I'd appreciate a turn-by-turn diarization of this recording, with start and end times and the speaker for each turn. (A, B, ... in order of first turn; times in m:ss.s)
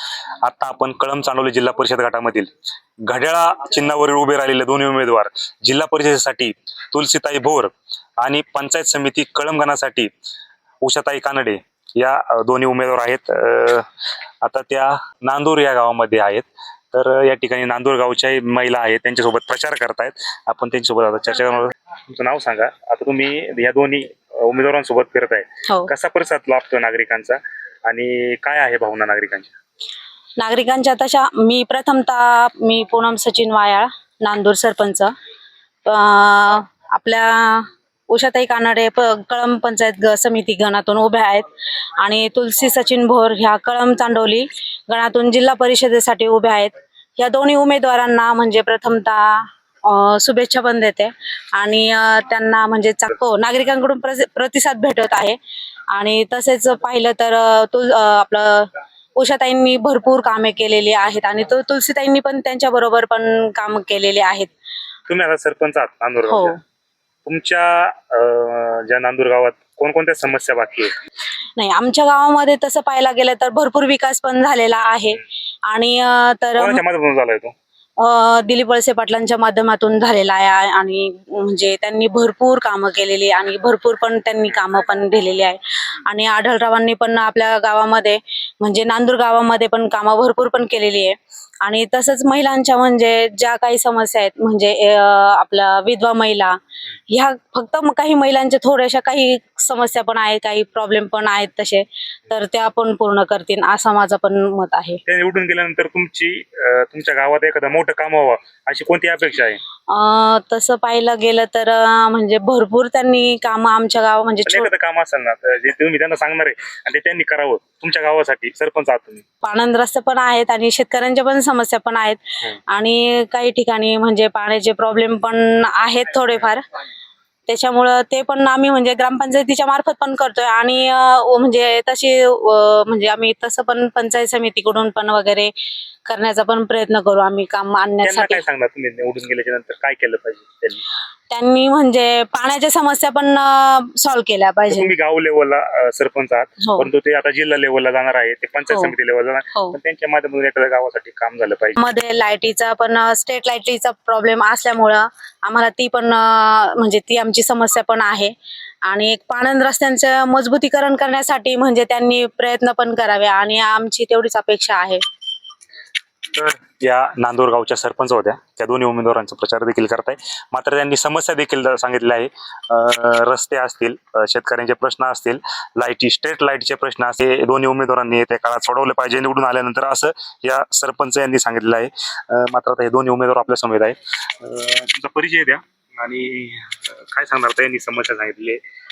0:00.4-0:02.5 A
0:03.0-0:10.1 A
0:10.8-0:13.9 A
0:14.4-0:29.5 A
0:30.4-0:35.1 B
0:35.8-0:55.4 B
0:55.9-1:04.5 B
1:05.1-1:06.6 A
1:06.3-1:06.6 B
1:07.2-1:10.9 A
1:11.6-1:16.8 B
1:16.6-1:17.5 A
1:18.0-1:45.0 B
1:45.0-1:49.6 A
1:49.9-1:54.7 B
1:54.4-1:59.2 A
1:59.4-2:06.6 B
2:07.5-2:15.5 B
2:16.0-2:18.4 B
2:18.0-2:20.8 A
2:21.3-2:24.9 B
2:24.7-2:31.8 A
2:26.6-2:26.9 B
2:31.8-2:38.3 B
2:38.8-2:45.0 B
2:46.3-3:08.6 A